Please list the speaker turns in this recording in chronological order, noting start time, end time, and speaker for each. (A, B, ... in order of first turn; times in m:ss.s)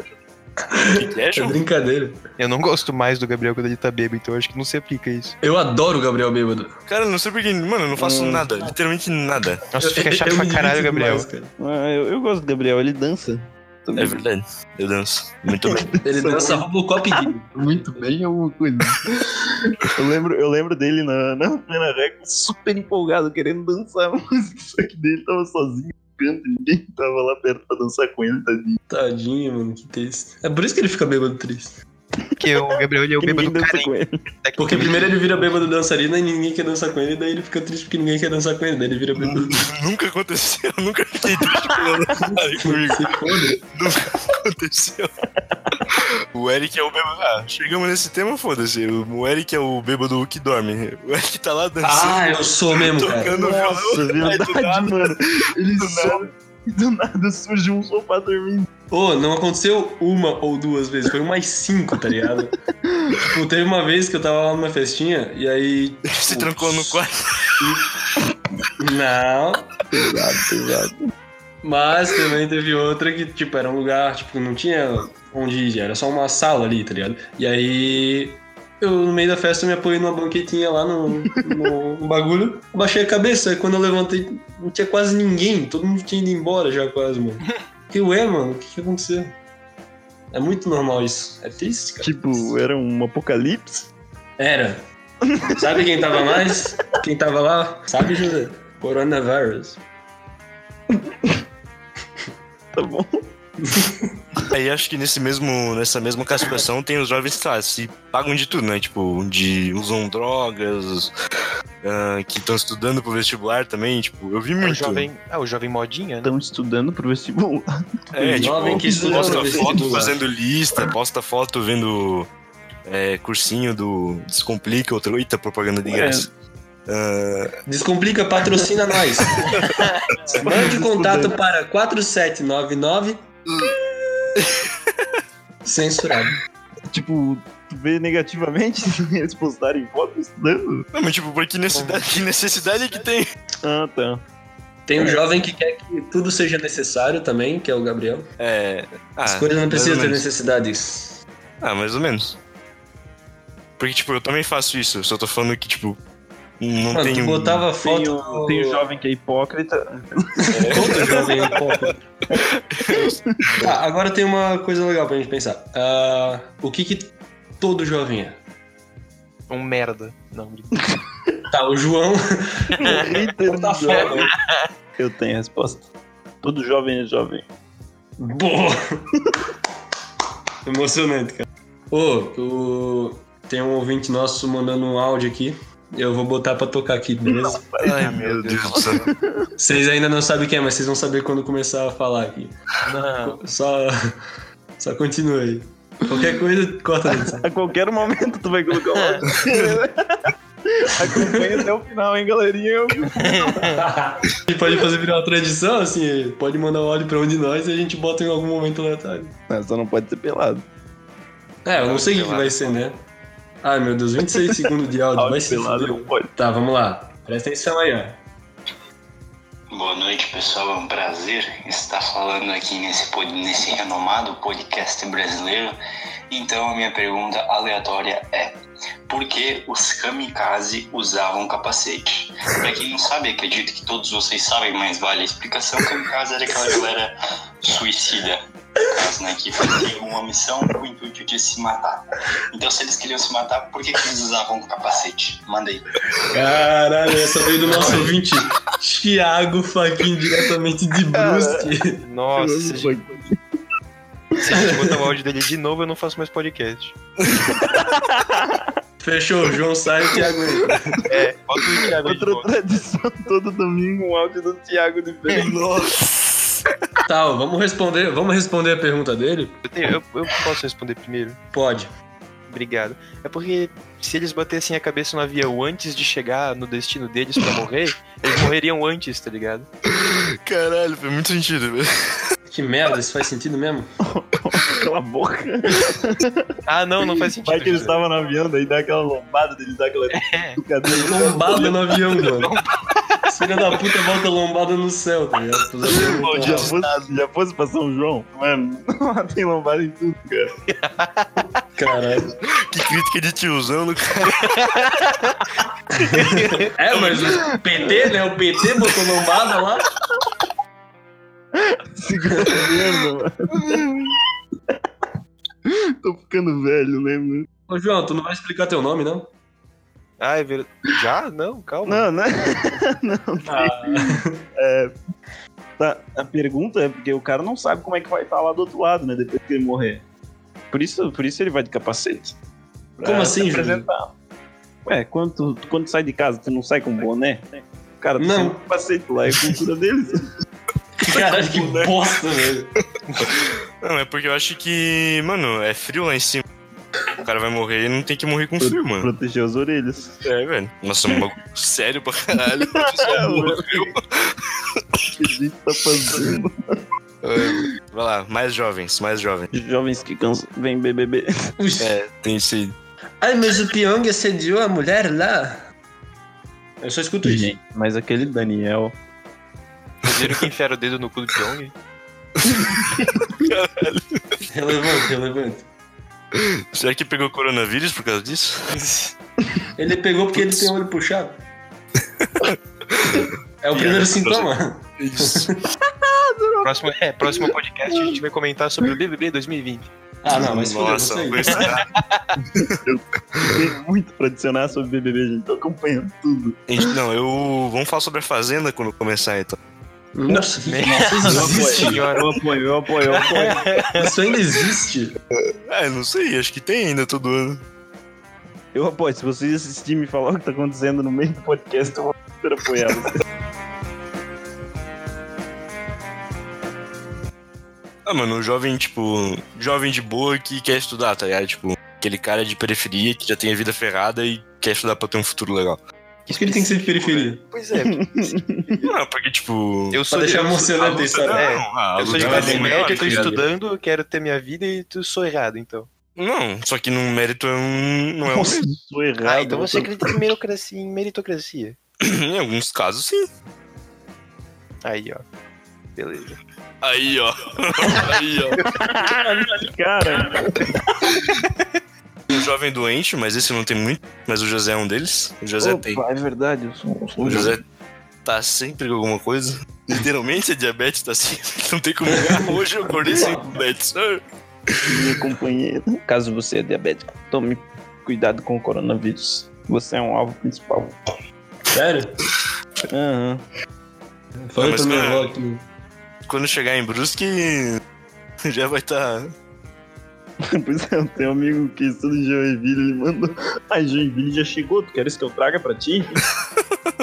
0:00.7-0:02.2 A
0:00.8-0:01.6 B
0:02.4-0:05.4 C
0:05.4-0:06.8 A
0:06.9-0:09.6 B
0:08.0-0:08.5 D
0:09.7-0:11.3 C
0:09.8-0:11.5 A
0:11.6-0:14.2 D
0:14.0-0:15.9 B
0:15.6-0:19.2 D
0:16.0-0:17.5 A
0:19.8-0:28.8 D
0:28.9-0:31.8 A
0:32.4-0:33.9 C
0:33.2-0:34.3 D
0:34.4-0:35.1 C
0:34.6-0:39.6 A
0:39.2-0:45.1 B
0:42.3-0:43.6 A
0:45.4-0:45.8 D
0:45.9-0:56.3 B
0:51.8-0:53.3 A
0:53.3-0:58.7 D
0:58.9-1:02.6 A
1:02.9-1:03.2 D
1:03.2-1:07.0 A
1:06.1-1:07.7 B
1:08.8-1:09.7 A
1:09.9-1:11.1 D
1:11.6-1:29.4 A
1:30.3-1:32.2 A
1:32.0-1:33.9 D
1:34.4-1:34.8 A
1:35.3-1:35.8 D
1:35.6-1:39.8 A
1:42.7-1:43.3 D
1:43.7-1:44.1 A
1:44.5-1:51.1 B
1:51.8-1:55.1 B
1:54.6-1:56.3 C
1:56.2-2:00.1 D
1:58.1-2:02.3 B
1:58.4-2:00.1 A
2:02.8-2:06.3 B
2:05.9-2:06.3 D
2:06.9-2:07.5 B
2:07.7-2:09.4 A
2:10.3-2:11.4 D
2:10.3-2:13.2 A
2:14.4-2:14.8 B
2:15.6-2:16.4 A
2:16.9-2:20.9 D
2:20.9-2:23.3 B
2:21.7-2:22.0 C
2:23.6-2:24.2 D
2:24.9-2:28.3 A
2:28.4-2:30.2 B
2:29.3-2:31.2 A
2:31.6-2:32.4 B
2:33.8-2:36.0 B
2:36.6-2:37.7 B
2:36.9-2:38.8 A
2:37.8-2:41.2 D
2:40.5-2:42.0 A
2:40.5-2:41.6 B
2:42.4-2:43.7 D
2:42.7-2:43.7 B
2:43.6-2:48.4 A
2:49.5-2:50.8 C
2:51.5-2:54.3 A
2:52.8-2:54.3 D
2:52.8-2:53.1 C
2:54.0-2:54.6 C
2:55.0-2:55.9 D
2:56.4-2:57.4 D
2:58.2-2:59.0 A
3:00.6-3:07.6 A
3:07.3-3:09.5 D
3:07.8-3:09.1 B
3:09.6-3:12.6 A
3:12.9-3:13.4 C
3:13.2-3:14.1 A
3:14.8-3:17.5 A
3:17.3-3:23.6 D
3:18.9-3:19.2 C
3:19.4-3:19.7 B
3:21.0-3:21.6 A
3:23.1-3:23.8 C
3:23.6-3:29.3 A
3:29.5-3:30.6 D
3:31.6-3:33.0 A
3:31.7-3:32.8 C
3:33.6-3:38.2 A
3:35.2-3:36.3 D
3:39.7-3:45.8 E
3:46.3-4:05.8 E
4:06.3-4:12.1 A
4:07.7-4:08.1 C
4:07.7-4:08.0 D
4:11.1-4:11.6 D
4:12.0-4:13.0 C
4:12.4-4:13.4 D
4:14.4-4:17.0 C
4:14.5-4:14.9 A
4:17.4-4:18.7 D
4:19.0-4:21.1 A
4:21.1-4:22.5 C
4:22.0-4:25.6 D
4:25.4-4:26.6 B
4:27.1-4:29.6 A
4:29.6-4:31.4 C
4:31.5-4:31.9 A
4:32.5-4:39.7 C
4:39.9-4:42.3 B
4:42.5-4:44.0 A
4:44.0-4:46.5 D
4:46.7-4:48.0 C
4:47.4-4:51.8 D
4:50.1-4:50.6 C
4:50.9-4:52.5 A
4:52.3-4:52.7 C
4:53.3-4:56.8 A
4:55.9-5:00.8 D
4:56.3-4:56.8 B
5:00.8-5:01.5 C
5:01.8-5:02.4 A
5:02.4-5:04.7 B
5:04.4-5:05.4 C
5:06.0-5:06.7 C
5:06.1-5:09.9 A
5:06.9-5:07.3 B
5:11.6-5:13.9 D
5:12.4-5:12.7 A
5:15.6-5:17.5 D
5:17.7-5:19.3 A
5:20.2-5:22.6 C
5:21.9-5:24.9 D
5:23.5-5:24.4 A
5:25.8-5:30.0 D
5:30.7-5:32.4 D
5:33.0-5:34.1 D
5:33.0-5:33.9 A
5:34.8-5:40.3 D
5:38.2-5:38.6 A
5:41.0-5:42.7 A
5:41.3-5:41.9 D
5:43.2-5:46.4 B
5:47.2-5:49.1 B
5:48.6-5:50.2 D
5:50.2-5:54.8 B
5:52.7-5:53.9 D
5:55.1-5:56.8 D
5:57.2-5:59.5 B
5:59.5-6:01.5 D
6:01.6-6:01.9 A
6:01.8-6:02.8 B
6:03.2-6:05.7 A
6:06.8-6:07.5 A
6:07.2-6:09.0 D
6:10.0-6:11.7 C
6:10.1-6:10.4 B
6:12.4-6:14.4 B
6:14.5-6:15.7 A
6:16.3-6:18.8 B
6:18.7-6:19.1 C
6:19.8-6:21.4 A
6:20.4-6:20.7 B
6:22.2-6:25.5 B
6:23.6-6:25.6 A
6:26.0-6:26.7 D
6:26.6-6:29.9 C
6:30.2-6:31.7 A
6:30.3-6:31.9 B
6:31.5-6:32.3 C
6:32.7-6:36.6 D
6:36.7-6:39.6 B
6:40.2-6:42.1 A
6:40.4-6:42.4 C
6:40.8-6:43.7 D
6:43.1-6:44.2 C
6:44.0-6:45.2 A
6:45.4-6:47.6 B
6:48.7-6:53.2 D
6:58.0-7:05.8 B
7:06.3-7:09.0 C
7:06.3-7:07.4 A
7:07.8-7:08.6 D
7:08.8-7:10.0 B
7:09.9-7:15.9 C
7:10.1-7:11.4 A
7:10.8-7:13.4 B
7:12.0-7:13.5 A
7:16.2-7:18.6 B
7:18.3-7:20.2 D
7:19.2-7:21.8 C
7:22.0-7:23.3 B
7:24.8-7:25.2 C
7:26.0-7:26.4 C
7:26.8-7:28.7 B
7:28.6-7:31.1 D
7:31.2-7:31.4 B
7:32.3-7:36.0 B
7:35.6-7:37.6 D
7:37.2-7:37.6 B
7:38.2-7:44.8 B
7:42.1-7:43.4 A
7:44.8-7:51.0 D
7:51.7-7:52.2 A
7:52.9-7:53.4 D
7:54.5-7:55.6 A
7:54.6-7:55.3 B
7:56.3-7:57.8 B
7:58.4-7:59.3 B
8:00.4-8:06.2 D